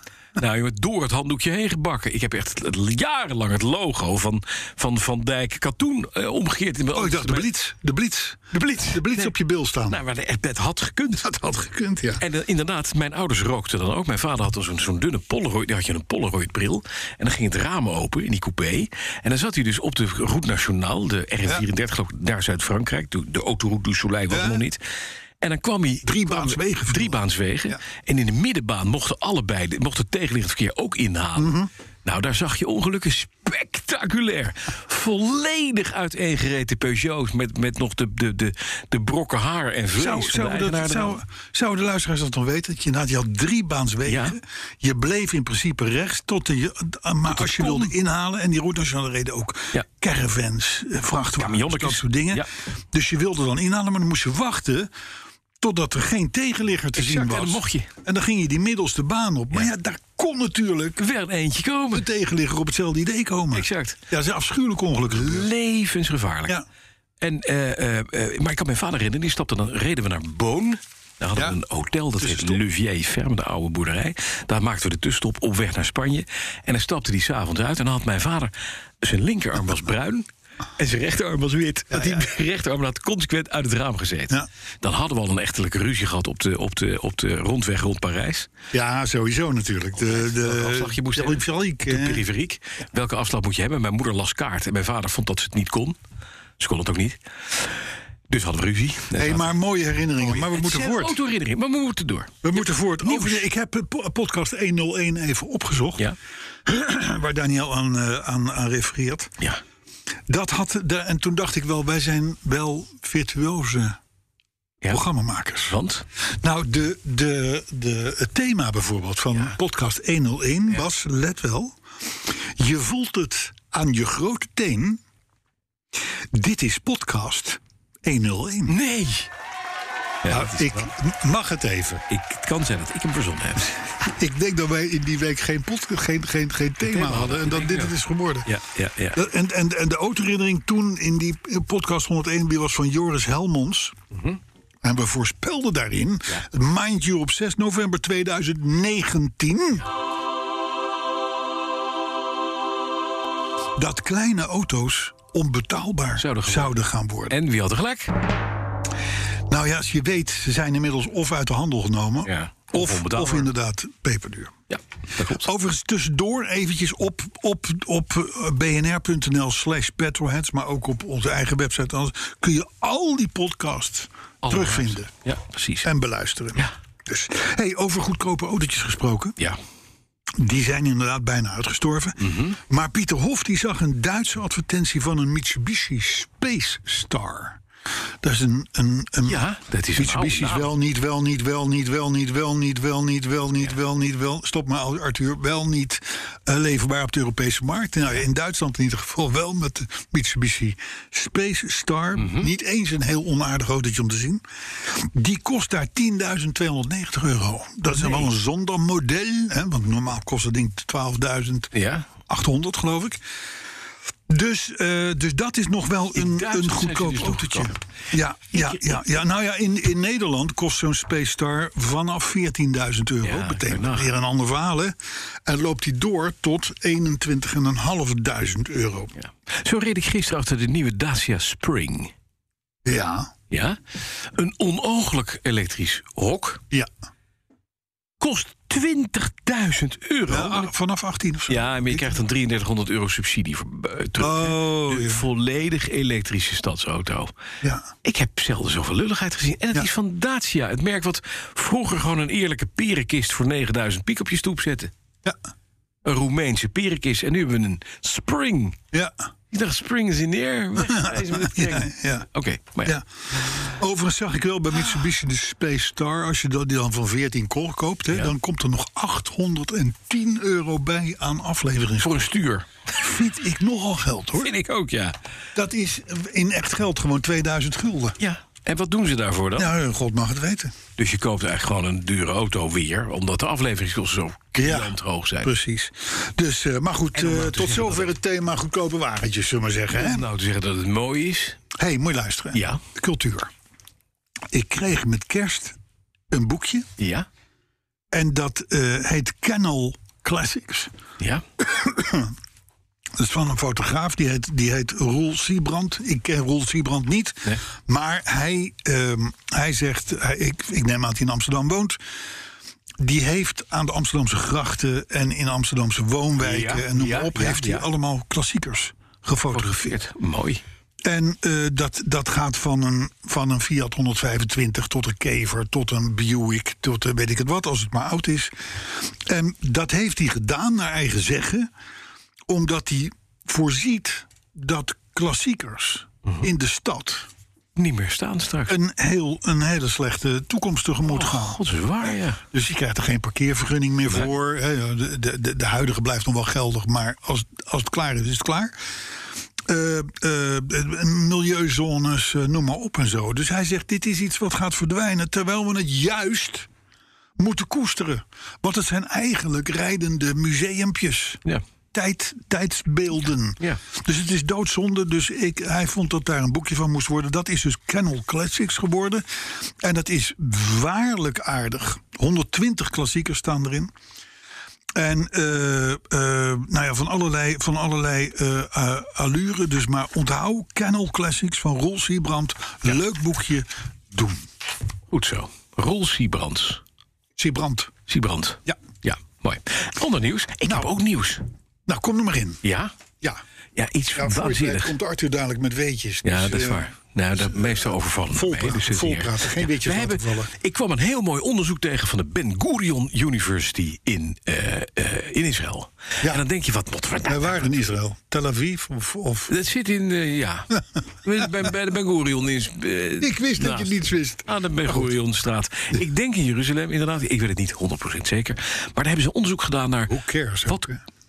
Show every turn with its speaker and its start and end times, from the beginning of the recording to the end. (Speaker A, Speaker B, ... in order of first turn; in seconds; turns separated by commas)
Speaker A: 0.3-7.5, Speaker B: 6.9-10.0, Speaker A: 8.5-9.3, Speaker A: 9.9-11.3, Speaker B: 11.2-12.2, Speaker A: 12.2-24.8, Speaker B: 24.3-24.6, Speaker A: 25.4-41.2, Speaker B: 26.0-27.8, Speaker B: 31.4-31.7, Speaker B: 40.0-54.9, Speaker A: 44.0-44.4, Speaker A: 47.3-47.9, Speaker A: 51.4-52.5, Speaker B: 55.6-61.0, Speaker A: 56.9-57.9, Speaker A: 61.0-62.0, Speaker B: 61.9-65.5, Speaker A: 63.5-64.0, Speaker A: 65.1-66.6, Speaker A: 67.2-80.2, Speaker B: 72.2-72.6, Speaker A: 80.8-88.5, Speaker B: 81.9-82.3, Speaker B: 88.7-92.2, Speaker A: 90.0-96.0, Speaker A: 96.6-97.7, Speaker A: 98.3-99.6, Speaker B: 99.2-101.2, Speaker A: 100.2-103.4, Speaker B: 102.4-106.0, Speaker B: 106.7-109.3, Speaker B: 110.3-114.0, Speaker B: 114.9-115.8, Speaker A: 115.7-116.0, Speaker B: 116.4-125.0, Speaker B: 126.3-128.8, Speaker A: 128.7-129.3, Speaker A: 130.2-130.9, Speaker B: 130.3-132.0, Speaker A: 132.1-133.7, Speaker B: 134.0-138.5, Speaker A: 136.8-139.2, Speaker B: 139.1-143.9, Speaker A: 144.1-144.4, Speaker B: 144.8-149.8, Speaker B: 153.8-157.3, Speaker A: 156.2-156.8, Speaker A: 157.3-158.1, Speaker B: 159.5-164.5, Speaker A: 162.2-163.5, Speaker A: 164.7-165.4, Speaker B: 165.3-175.1, Speaker A: 174.4-175.9, Speaker B: 175.8-179.3, Speaker B: 180.4-187.6, Speaker A: 182.2-182.6, Speaker B: 188.2-189.4, Speaker A: 189.2-190.7, Speaker B: 189.9-211.7, Speaker A: 202.2-202.5, Speaker A: 207.9-208.3, Speaker A: 211.7-212.1, Speaker B: 212.3-213.2, Speaker B: 214.3-224.9, Speaker A: 216.1-217.8, Speaker A: 218.5-219.0, Speaker A: 223.2-224.1, Speaker B: 225.5-229.1, Speaker A: 229.2-232.1, Speaker B: 232.8-233.3, Speaker A: 233.5-233.8, Speaker A: 234.3-236.6, Speaker A: 238.2-240.7, Speaker B: 240.3-242.2, Speaker A: 241.5-247.3, Speaker B: 244.2-245.2, Speaker B: 247.6-247.9, Speaker A: 248.0-254.9, Speaker A: 256.0-258.8, Speaker A: 259.5-263.8, Speaker B: 260.9-262.2, Speaker B: 263.6-272.2, Speaker A: 272.0-272.7, Speaker B: 272.9-274.5, Speaker A: 274.4-275.1, Speaker B: 275.5-278.2, Speaker A: 278.2-279.7, Speaker B: 279.6-280.7, Speaker A: 281.0-285.5, Speaker B: 284.6-290.2, Speaker A: 287.1-288.1, Speaker A: 289.9-291.6, Speaker B: 291.8-293.5, Speaker A: 292.5-292.8, Speaker B: 294.5-295.8, Speaker B: 296.3-296.9, Speaker A: 297.0-297.3, Speaker B: 298.1-300.9, Speaker B: 301.6-302.3, Speaker B: 303.2-312.0, Speaker B: 313.0-320.0, Speaker A: 316.4-317.9, Speaker A: 319.5-320.6, Speaker B: 321.0-331.7, Speaker B: 332.5-337.3, Speaker A: 337.8-338.7, Speaker B: 338.7-348.8, Speaker A: 341.0-342.4, Speaker B: 349.7-356.7, Speaker B: 357.4-361.4, Speaker B: 361.9-373.9, Speaker B: 374.9-384.4, Speaker A: 385.1-386.8, Speaker B: 387.4-387.9, Speaker A: 388.1-391.4, Speaker B: 391.9-392.6, Speaker A: 392.6-392.9, Speaker A: 393.8-394.9, Speaker B: 394.1-400.5, Speaker A: 396.2-407.7, Speaker B: 407.2-409.5, Speaker A: 409.5-410.7, Speaker A: 411.2-420.1, Speaker B: 413.2-415.1, Speaker B: 420.1-421.0